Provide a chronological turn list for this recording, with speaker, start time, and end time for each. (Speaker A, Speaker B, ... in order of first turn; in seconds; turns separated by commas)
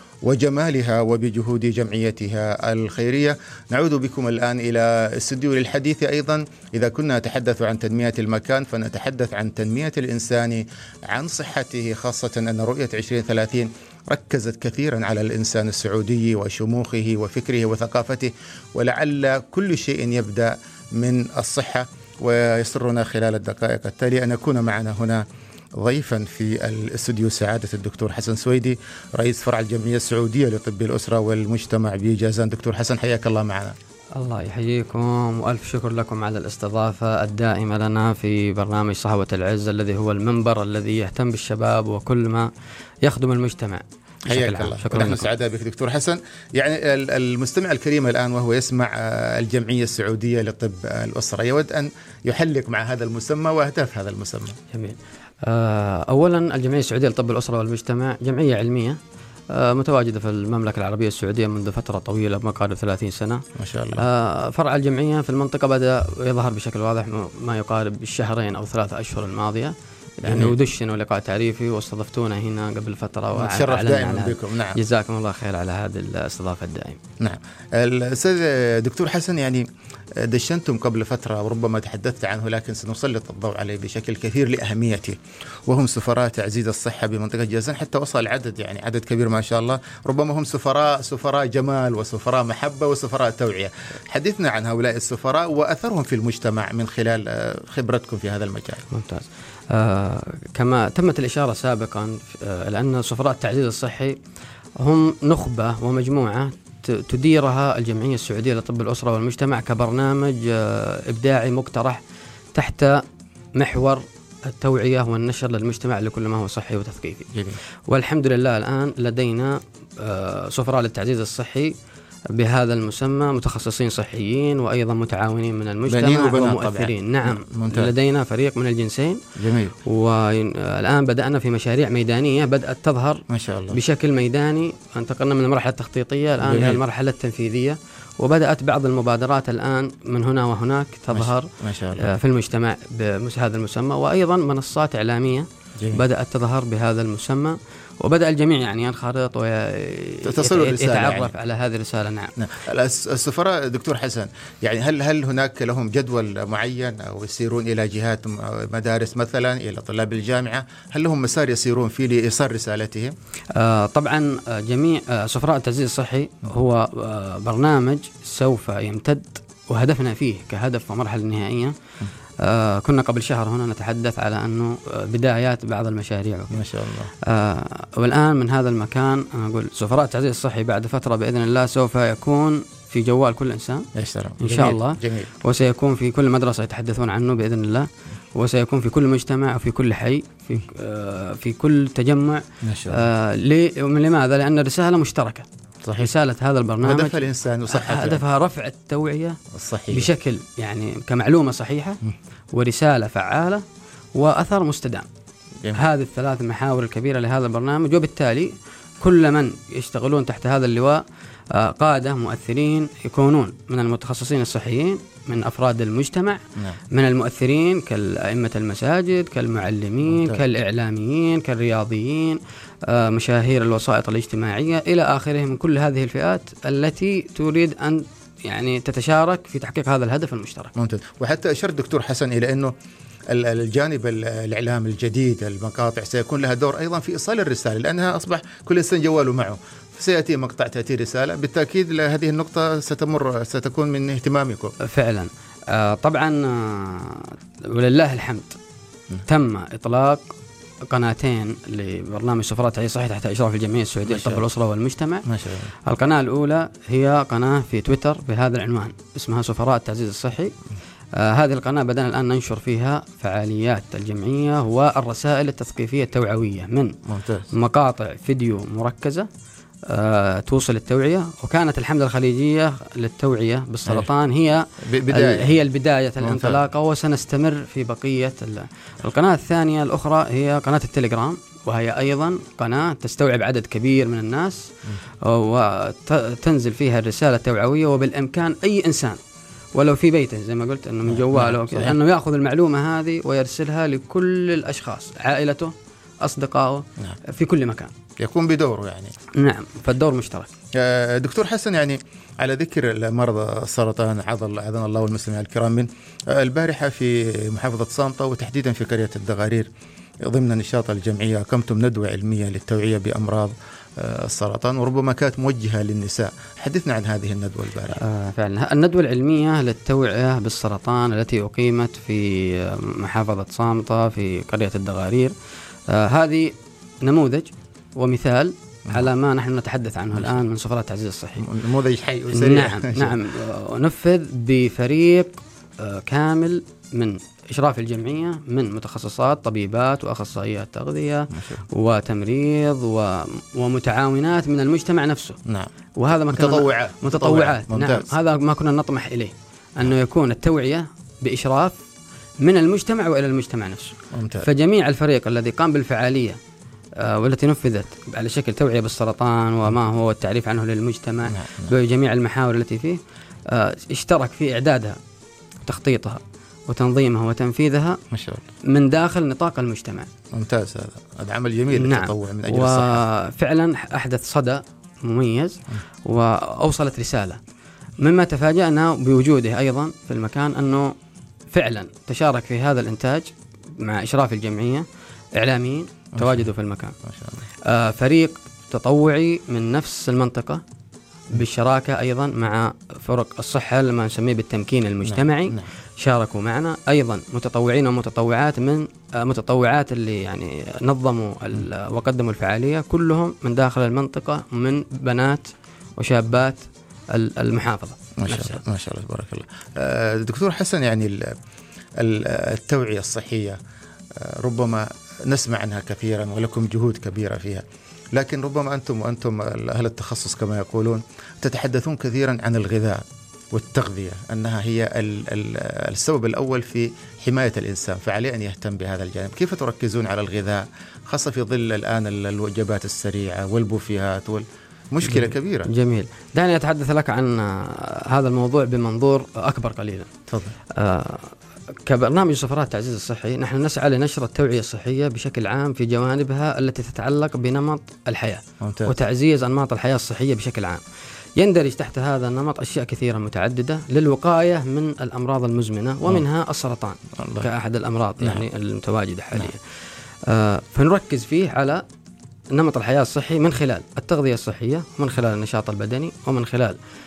Speaker A: 0.2-25.2, Speaker A: 25.8-33.8, Speaker B: 34.2-42.5, Speaker B: 43.0-45.3, Speaker A: 44.3-54.6, Speaker B: 54.7-59.0, Speaker B: 59.5-63.4, Speaker A: 63.6-64.1, Speaker B: 64.0-77.0, Speaker A: 70.2-70.6, Speaker A: 73.3-74.8, Speaker A: 77.2-79.7, Speaker A: 80.2-98.8, Speaker B: 98.9-104.2, Speaker B: 104.8-112.0, Speaker B: 112.5-113.0, Speaker B: 113.5-117.3, Speaker B: 117.9-121.7, Speaker B: 122.3-129.2, Speaker A: 125.9-127.9, Speaker A: 129.4-129.8, Speaker B: 129.8-152.3, Speaker A: 133.3-133.8, Speaker A: 136.4-136.8, Speaker A: 141.1-142.1, Speaker A: 145.8-146.0, Speaker A: 150.2-151.3, Speaker A: 152.4-163.2, Speaker B: 163.5-171.7, Speaker B: 172.4-176.7, Speaker A: 176.5-177.1, Speaker B: 177.2-183.9, Speaker A: 183.9-185.3, Speaker B: 184.4-195.5, Speaker A: 192.6-193.1, Speaker A: 195.8-196.1, Speaker B: 196.0-197.2, Speaker A: 196.8-198.2, Speaker B: 197.7-202.0, Speaker A: 199.5-200.1, Speaker B: 202.5-203.6, Speaker B: 204.2-205.1, Speaker B: 205.7-230.7, Speaker A: 220.1-220.4, Speaker A: 230.8-232.7, Speaker A: 233.3-244.7, Speaker B: 244.8-248.6, Speaker B: 249.3-250.2, Speaker B: 250.9-255.3, Speaker A: 254.1-254.4, Speaker A: 255.3-255.7, Speaker B: 255.8-260.6, Speaker B: 261.2-267.0, Speaker A: 267.1-267.5, Speaker B: 267.5-269.3, Speaker B: 269.9-284.7, Speaker A: 274.9-275.6, Speaker A: 276.2-276.7, Speaker B: 285.2-289.2, Speaker B: 289.8-297.9, Speaker A: 291.1-292.0, Speaker A: 298.2-299.1, Speaker B: 299.4-300.5, Speaker A: 300.7-309.7, Speaker A: 310.2-318.0, Speaker B: 317.9-325.3, Speaker B: 325.9-331.5, Speaker A: 330.1-330.4, Speaker A: 331.4-333.2, Speaker B: 332.3-345.4, Speaker A: 341.3-341.6, Speaker B: 346.0-351.8, Speaker A: 346.3-348.1, Speaker B: 352.4-356.4, Speaker A: 354.1-354.5, Speaker B: 357.0-365.0, Speaker A: 361.3-361.7, Speaker B: 365.6-368.0, Speaker A: 368.1-368.4, Speaker B: 368.6-370.1, Speaker A: 370.3-373.0, Speaker B: 371.7-377.4, Speaker B: 378.0-380.9, Speaker B: 381.5-387.0, Speaker A: 386.2-386.5, Speaker A: 387.0-387.4, Speaker B: 387.6-390.6, Speaker B: 391.3-408.6, Speaker A: 395.1-395.7, Speaker A: 408.2-411.4, Speaker A: 412.0-413.6, Speaker A: 414.2-435.7, Speaker B: 435.1-440.1, Speaker A: 440.3-440.6, Speaker B: 440.7-441.4, Speaker B: 441.9-450.8, Speaker A: 448.6-448.9, Speaker B: 451.4-459.6, Speaker A: 457.2-457.5, Speaker B: 460.2-461.8, Speaker B: 462.5-466.8